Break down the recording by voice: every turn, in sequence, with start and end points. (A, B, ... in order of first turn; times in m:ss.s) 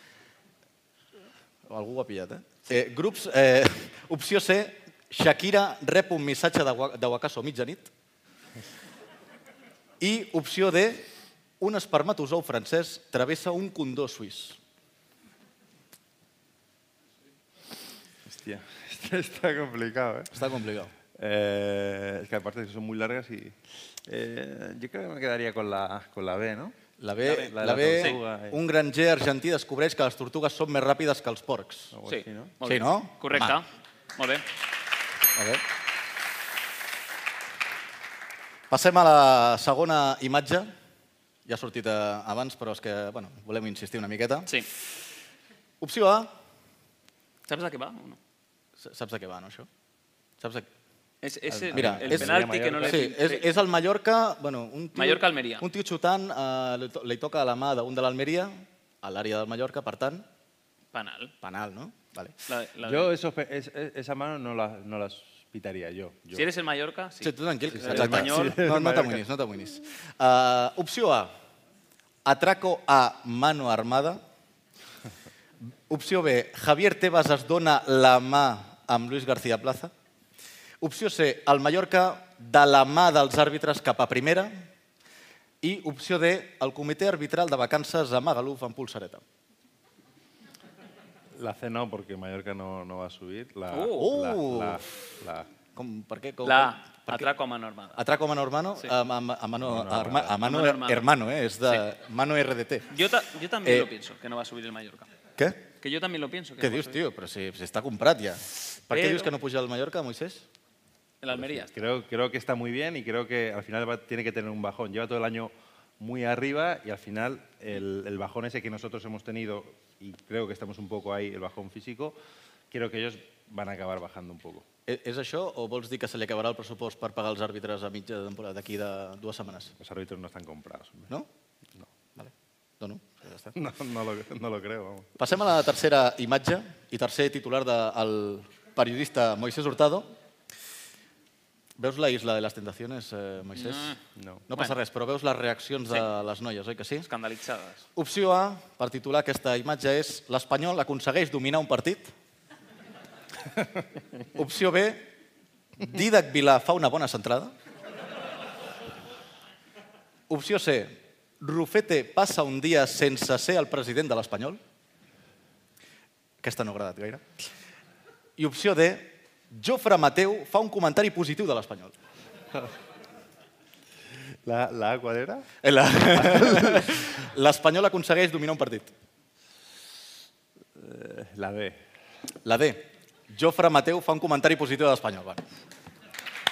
0:01.7-0:07.9 A
0:10.0-0:11.1 A
0:11.6-0:14.6 A
0:18.3-0:20.3 B
0:20.3-0:20.9 A
0:21.2-0:23.6 B
0:24.1-0:26.8 B
0:27.0-0:32.0 A
0:27.2-0:28.2 C
0:27.5-0:28.6 B
0:31.9-0:32.5 B
0:32.1-0:34.4 C
0:32.6-0:33.6 A
0:35.3-0:35.6 A
0:38.7-0:40.7 A
0:41.4-0:44.6 A
0:45.8-0:46.3 A
0:47.5-0:48.2 C
0:48.8-0:49.7 A
0:50.4-0:50.7 A
0:51.2-0:53.5 C
0:51.6-1:00.3 A
0:51.7-0:53.1 B
0:55.0-0:55.6 C
1:00.9-1:01.3 C
1:01.4-1:02.4 A
1:02.5-1:03.1 C
1:02.8-1:06.5 B
1:06.3-1:08.6 C
1:07.2-1:11.3 A
1:07.7-1:09.2 B
1:12.2-1:14.2 A
1:15.9-1:19.9 A
1:20.8-1:24.7 A
1:25.6-1:29.2 A
1:31.4-1:35.5 B
1:33.7-1:34.1 C
1:34.0-1:34.8 A
1:35.7-1:37.3 A
1:36.4-1:38.0 C
1:38.0-1:42.9 A
1:39.6-1:40.4 B
1:40.4-1:41.0 C
1:42.9-1:45.1 C
1:43.6-1:43.9 A
1:45.8-1:47.0 C
1:46.6-1:50.5 A
1:48.9-1:49.3 C
1:51.2-1:51.8 C
1:51.7-2:02.2 B
2:02.7-2:04.6 B
2:04.9-2:09.7 A
2:09.8-2:11.1 B
2:12.2-2:13.6 A
2:13.6-2:15.1 B
2:15.2-2:20.1 A
2:21.8-2:23.9 A
2:23.6-2:24.0 C
2:24.2-2:24.4 B
2:24.5-2:27.1 A
2:27.1-2:27.8 C
2:28.0-2:32.1 A
2:34.4-2:35.1 A
2:35.8-2:37.6 A
2:40.3-2:44.6 A
2:46.4-2:47.5 A
2:48.4-2:51.9 A
2:54.5-2:55.5 B
2:55.6-2:58.9 A
2:56.1-2:57.0 B
3:00.8-3:01.8 B
3:02.4-3:05.4 A